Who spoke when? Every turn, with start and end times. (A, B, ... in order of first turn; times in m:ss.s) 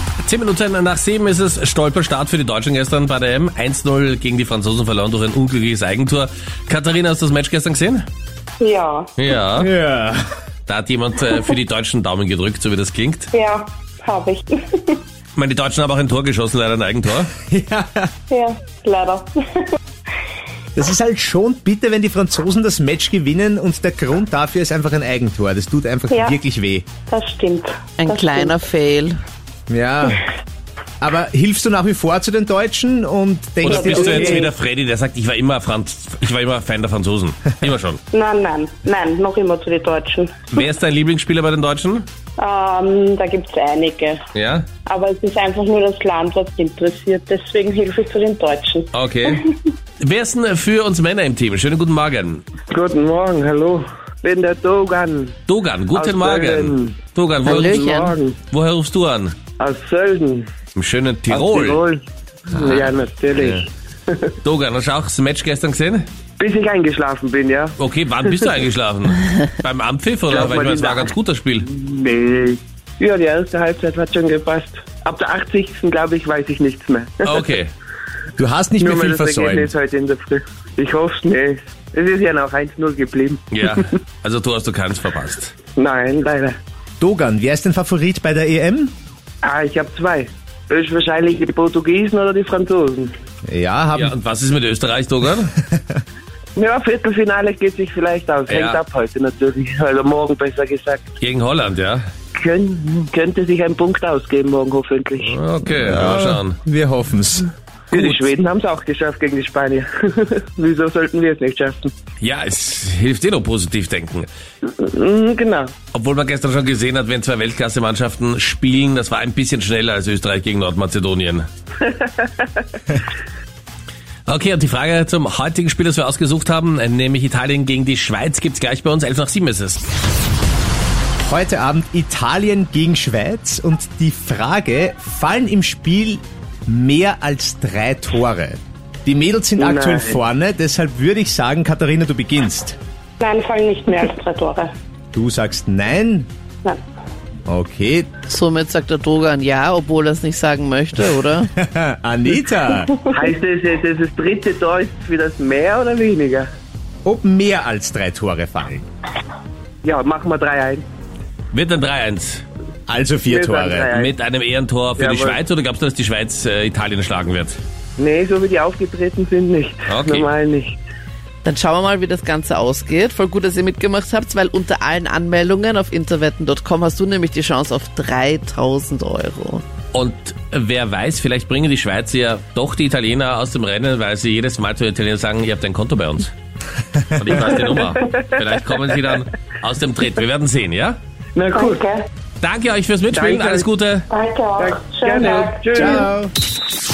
0:00.2-0:08.0 A
0:08.6-0:09.1 B
0:09.2-0:09.7 A
0:09.6-0:10.2 C
0:10.7-0:13.3 A
0:13.3-0:15.0 B
0:15.4-0:17.3 A
0:17.4-0:18.1 C
0:18.3-0:19.6 B
0:20.7-0:26.9 C
0:26.1-0:26.4 B
0:27.1-0:28.5 B
0:28.0-0:29.2 D
0:29.7-0:30.2 C
0:31.0-0:34.5 C
0:33.6-0:38.0 A
0:33.7-0:34.5 B
0:38.1-0:40.4 B
0:40.5-0:42.1 A
0:42.4-0:44.2 B
0:44.3-0:44.7 A
0:44.8-0:48.9 B
0:48.9-0:49.4 A
0:50.0-0:52.4 A
0:52.7-0:55.3 E
0:55.5-0:57.8 A
0:55.9-0:58.4 E
0:57.4-0:58.1 D
0:58.5-0:59.4 A
0:59.6-1:00.4 E
1:00.7-1:01.8 A
1:01.3-1:04.3 E
1:02.5-1:03.6 A
1:04.4-1:06.0 A
1:06.4-1:08.4 E
1:07.8-1:11.7 A
1:10.3-1:11.1 E
1:11.6-1:17.4 E
1:17.2-1:17.7 A
1:18.4-1:19.7 C
1:18.8-1:23.9 E
1:23.5-1:25.5 A
1:25.8-1:26.6 E
1:27.0-1:28.9 C
1:29.4-1:33.1 E
1:33.4-1:34.1 C
1:33.9-1:35.5 A
1:35.7-1:36.0 C
1:36.5-1:41.1 E
1:38.5-1:38.8 A
1:41.2-1:42.0 A
1:42.3-1:45.3 E
1:45.2-1:46.6 A
1:45.7-1:47.5 C
1:47.9-1:51.9 E
1:47.9-1:48.2 A
1:52.2-1:54.3 A
1:54.6-1:55.7 E
1:55.9-2:01.4 A
2:01.8-2:02.6 E
2:04.3-2:09.8 A
2:11.2-2:22.8 C
2:19.6-2:20.2 E
2:23.2-2:24.7 B
2:25.1-2:26.3 C
2:27.5-2:28.2 C
2:28.3-2:31.5 D
2:31.4-2:33.0 C
2:33.1-2:36.5 E
2:37.0-2:38.8 C
2:39.8-2:40.8 E
2:41.5-2:42.4 A
2:42.9-2:43.9 C
2:43.3-2:44.1 E
2:43.9-2:47.6 A
2:45.0-2:45.4 E
2:48.0-2:50.8 E
2:49.9-2:50.3 A
2:51.4-2:59.6 D
2:59.9-3:06.3 A
3:07.1-3:11.0 A
3:07.4-3:07.7 E
3:11.3-3:11.8 E
3:11.5-3:12.1 B
3:12.4-3:14.1 A
3:13.1-3:13.7 E
3:14.1-3:15.9 B
3:14.6-3:15.9 E
3:15.7-3:16.3 C